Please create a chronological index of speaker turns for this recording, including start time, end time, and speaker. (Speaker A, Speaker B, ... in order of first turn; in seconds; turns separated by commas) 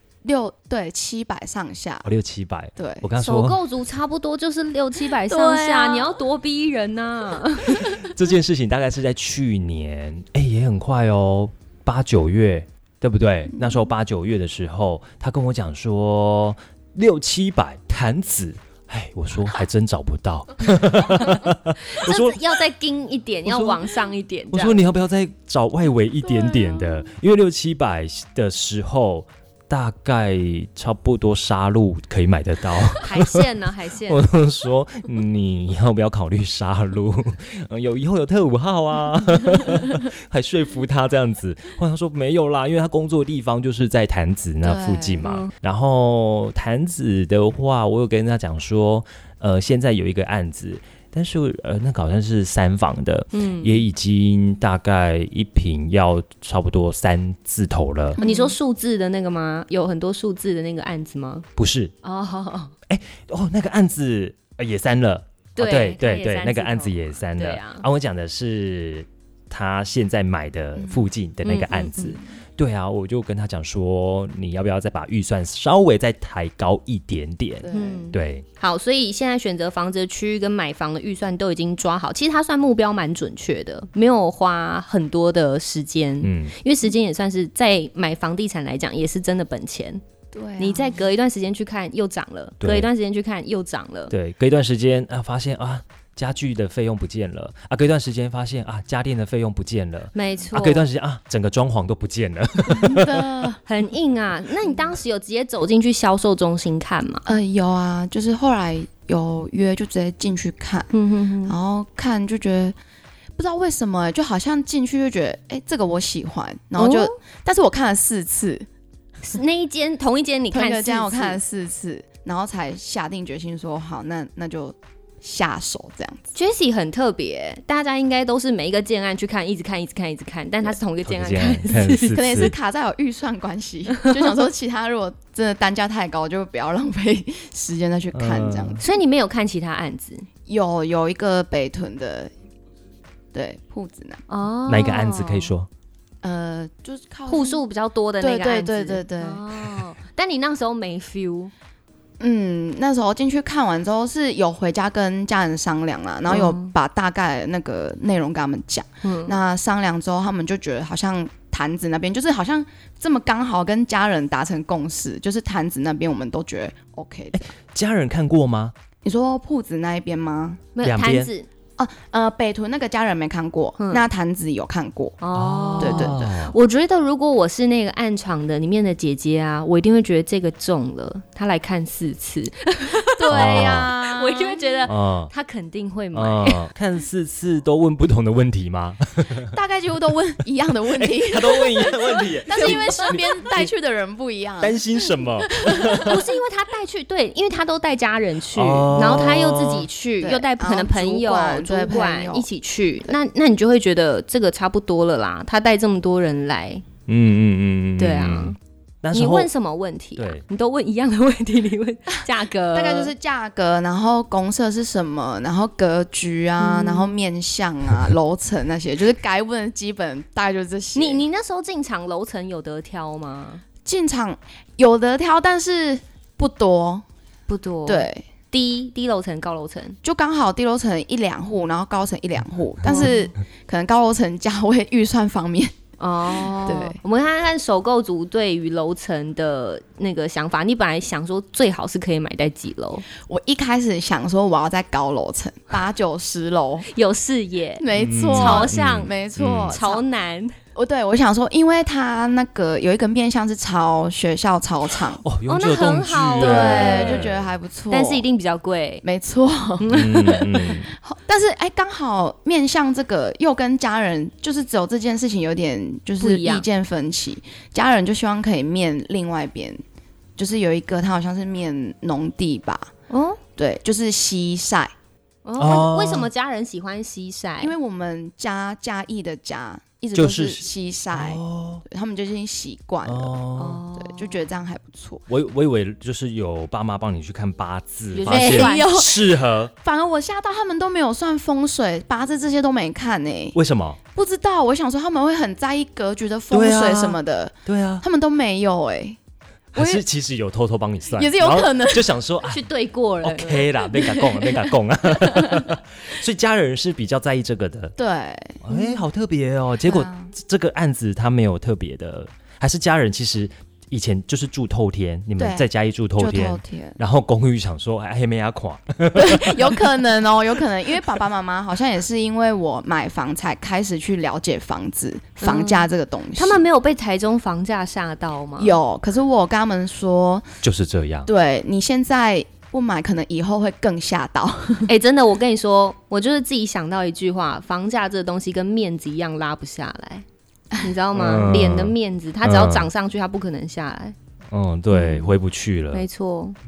Speaker A: 0.2-2.1, Speaker B: 2.0-3.6, Speaker A: 2.8-3.1, Speaker C: 3.2-8.0, Speaker A: 5.0-6.2, Speaker B: 7.8-22.5, Speaker C: 21.9-24.9, Speaker B: 23.4-23.8, Speaker B: 24.5-33.5, Speaker A: 26.3-27.1, Speaker C: 33.0-34.3, Speaker B: 34.1-58.2, Speaker A: 44.6-45.3, Speaker C: 45.2-45.5, Speaker C: 53.3-53.9, Speaker A: 58.2-58.6, Speaker C: 58.2-61.5, Speaker B: 61.6-61.9, Speaker C: 62.0-62.7, Speaker B: 62.9-78.5, Speaker C: 65.6-67.9, Speaker A: 70.8-71.1, Speaker C: 71.4-72.2, Speaker A: 77.6-78.1, Speaker C: 77.7-90.0, Speaker B: 86.2-86.5, Speaker A: 90.3-91.0, Speaker C: 90.6-94.1, Speaker B: 92.6-92.9, Speaker B: 94.1-103.3, Speaker C: 100.1-100.8, Speaker A: 102.7-103.6, Speaker C: 103.7-107.3, Speaker A: 107.3-110.9, Speaker C: 110.9-111.6, Speaker A: 111.5-112.8, Speaker A: 113.4-118.7, Speaker C: 116.8-117.1, Speaker C: 119.2-121.4, Speaker A: 120.5-126.3, Speaker C: 126.3-132.2, Speaker B: 131.1-132.6, Speaker A: 132.1-138.8, Speaker B: 138.1-138.8, Speaker C: 138.8-140.3, Speaker A: 140.5-142.3, Speaker A: 143.3-144.2, Speaker C: 144.3-145.5, Speaker B: 144.7-145.7, Speaker A: 146.2-147.6, Speaker C: 147.3-151.5, Speaker A: 148.2-149.5, Speaker A: 152.2-167.5, Speaker C: 156.3-156.7, Speaker C: 159.0-159.4, Speaker B: 167.3-168.7, Speaker A: 169.0-170.6, Speaker C: 170.8-171.5, Speaker B: 170.8-171.3, Speaker A: 171.8-175.2, Speaker C: 173.8-174.0, Speaker C: 175.2-186.6, Speaker B: 175.3-176.6, Speaker A: 175.8-176.4, Speaker A: 183.2-184.9, Speaker B: 183.3-183.9, Speaker B: 184.9-185.3, Speaker B: 186.1-189.6, Speaker A: 189.5-196.2, Speaker B: 190.9-193.7, Speaker C: 192.5-193.2, Speaker B: 194.6-196.2, Speaker C: 196.1-206.8, Speaker B: 198.5-199.9, Speaker A: 200.2-202.5, Speaker B: 207.1-209.5, Speaker C: 208.0-208.6, Speaker C: 209.1-213.1, Speaker B: 210.2-210.4, Speaker A: 212.2-221.2, Speaker C: 216.6-217.1, Speaker C: 220.9-223.6, Speaker A: 223.8-227.1, Speaker C: 227.5-230.0, Speaker A: 227.9-228.2, Speaker A: 230.0-235.7, Speaker C: 232.8-233.3, Speaker C: 236.0-243.1, Speaker A: 236.4-237.0, Speaker A: 243.2-246.9, Speaker C: 246.9-249.1, Speaker A: 247.8-250.1, Speaker B: 247.9-249.8, Speaker C: 249.7-250.6, Speaker A: 250.8-255.2, Speaker B: 255.2-257.5, Speaker C: 255.5-257.3, Speaker A: 256.4-258.3, Speaker C: 257.9-259.1, Speaker A: 259.0-269.8, Speaker C: 259.8-260.4, Speaker B: 259.9-260.9, Speaker C: 266.2-266.7, Speaker A: 270.4-272.9, Speaker C: 273.1-273.4, Speaker A: 273.6-274.9, Speaker C: 275.4-277.8, Speaker B: 275.6-276.3, Speaker A: 277.6-285.3, Speaker B: 280.1-281.8, Speaker B: 283.1-283.8, Speaker C: 283.6-284.5, Speaker B: 285.3-289.7, Speaker C: 288.1-288.9, Speaker A: 288.3-293.6, Speaker B: 293.5-294.0, Speaker A: 294.1-299.2, Speaker B: 296.5-298.0, Speaker A: 299.8-300.0, Speaker B: 299.8-302.6, Speaker A: 301.1-302.1, Speaker C: 302.4-303.7, Speaker B: 303.2-308.0, Speaker A: 303.9-305.7, Speaker A: 308.0-308.6, Speaker B: 308.6-319.7, Speaker A: 309.8-310.3, Speaker A: 315.4-317.0, Speaker A: 319.1-326.6, Speaker C: 325.4-328.8, Speaker A: 328.6-330.5, Speaker B: 330.6-331.3, Speaker A: 331.3-334.9, Speaker C: 334.9-340.2, Speaker C: 340.8-344.1, Speaker B: 341.1-342.9, Speaker B: 344.5-346.1, Speaker C: 344.9-345.3, Speaker C: 345.9-346.6